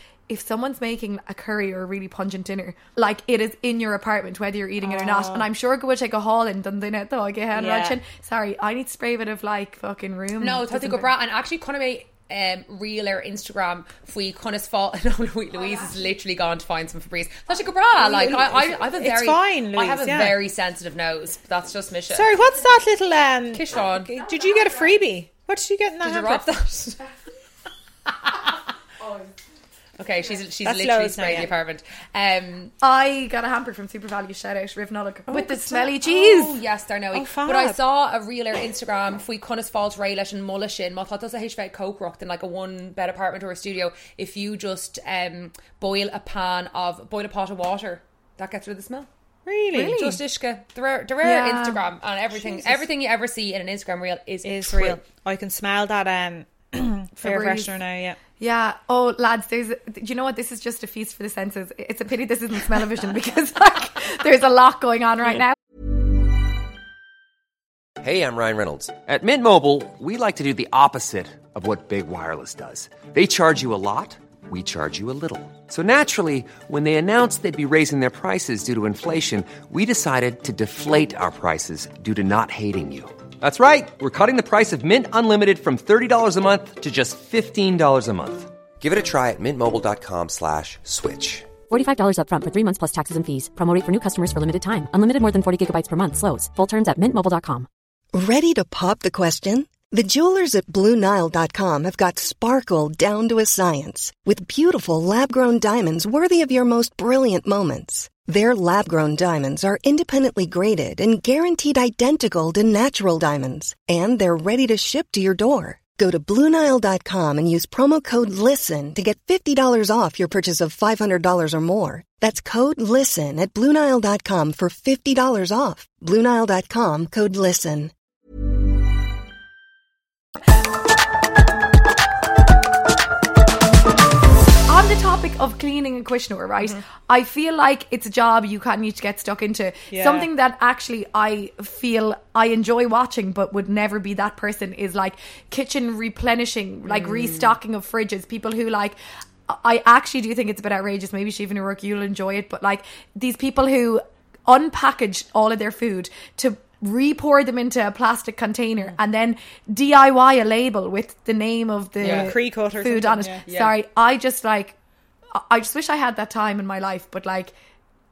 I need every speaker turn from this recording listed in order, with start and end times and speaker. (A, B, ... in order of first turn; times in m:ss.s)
0:00.3-0:11.1 A
0:04.8-0:05.5 B
0:07.5-0:08.0 B
0:10.4-0:22.3 C
0:18.0-0:20.4 B
0:22.1-0:26.4 B
0:23.5-0:24.1 C
0:26.0-0:27.0 C
0:28.1-0:28.5 C
0:30.0-0:32.7 C
0:30.6-0:31.5 B
0:32.8-0:36.6 A
0:35.3-0:49.1 C
0:37.1-0:37.8 B
0:49.4-0:50.2 B
0:49.7-0:50.2 A
0:49.9-0:55.0 C
0:51.2-0:51.8 A
0:52.4-0:52.8 A
0:54.4-0:58.2 B
0:57.2-0:57.8 A
0:58.4-1:05.6 A
1:08.0-1:31.5 D
1:31.7-1:37.7 E
1:38.1-2:07.9 F
2:14.7-2:29.0 A
2:19.9-2:20.3 B
2:26.9-2:27.5 C
2:29.5-2:44.7 A
2:42.0-2:42.3 C
2:42.0-2:43.4 B
2:43.5-2:43.7 C
2:45.3-2:47.5 A